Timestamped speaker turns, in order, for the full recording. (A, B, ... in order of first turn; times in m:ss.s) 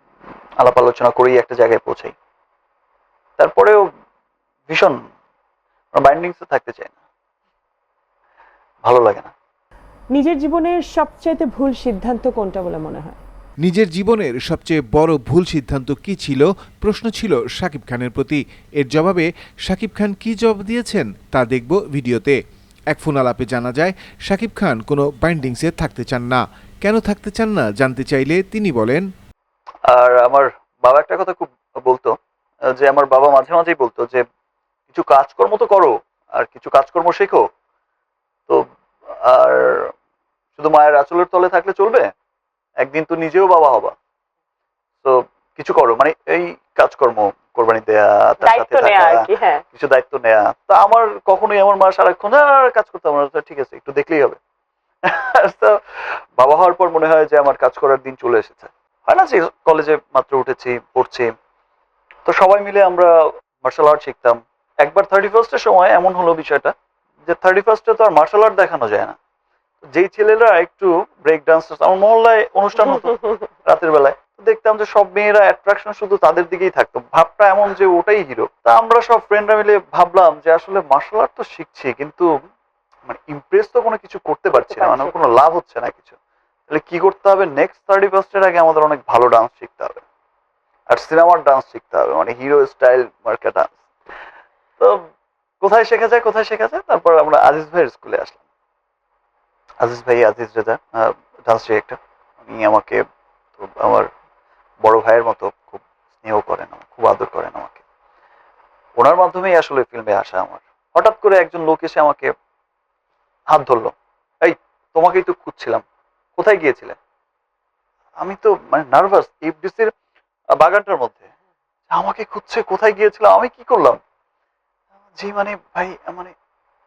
0:00.6-0:02.1 A
0:03.4-0:03.8 A
0:04.7-0:05.0 A
0:06.0-0:06.9 A
0:08.8-0:09.3 A
0:10.1-0:13.2 B
0:13.6-0:22.4 C
0:22.9-0:29.0 C
0:29.9-0:32.1 A
0:32.8-0:34.2 A
0:34.9-0:37.4 A
0:39.2-0:39.9 A
0:40.6-0:42.1 A
0:42.8-0:43.9 A
0:45.0-0:54.4 A
0:48.4-0:49.6 B
0:55.1-0:55.8 A
0:56.4-1:01.3 A
1:02.3-1:03.1 A
1:03.6-1:06.7 A
1:07.3-1:09.2 A
1:09.9-1:13.1 A
1:12.8-1:13.5 B
1:13.6-1:22.3 A
1:23.1-1:26.2 A
1:24.5-1:25.2 B
1:26.7-1:30.0 A
1:30.9-1:33.8 A
1:35.6-1:38.4 A
1:39.8-1:43.0 A
1:43.6-1:44.1 A
1:44.8-1:47.8 A
1:49.0-1:52.3 A
1:53.5-1:55.8 A
1:56.4-1:57.0 A
1:58.2-1:59.9 A
2:00.6-2:01.3 A
2:01.9-2:04.0 A
2:05.2-2:06.3 A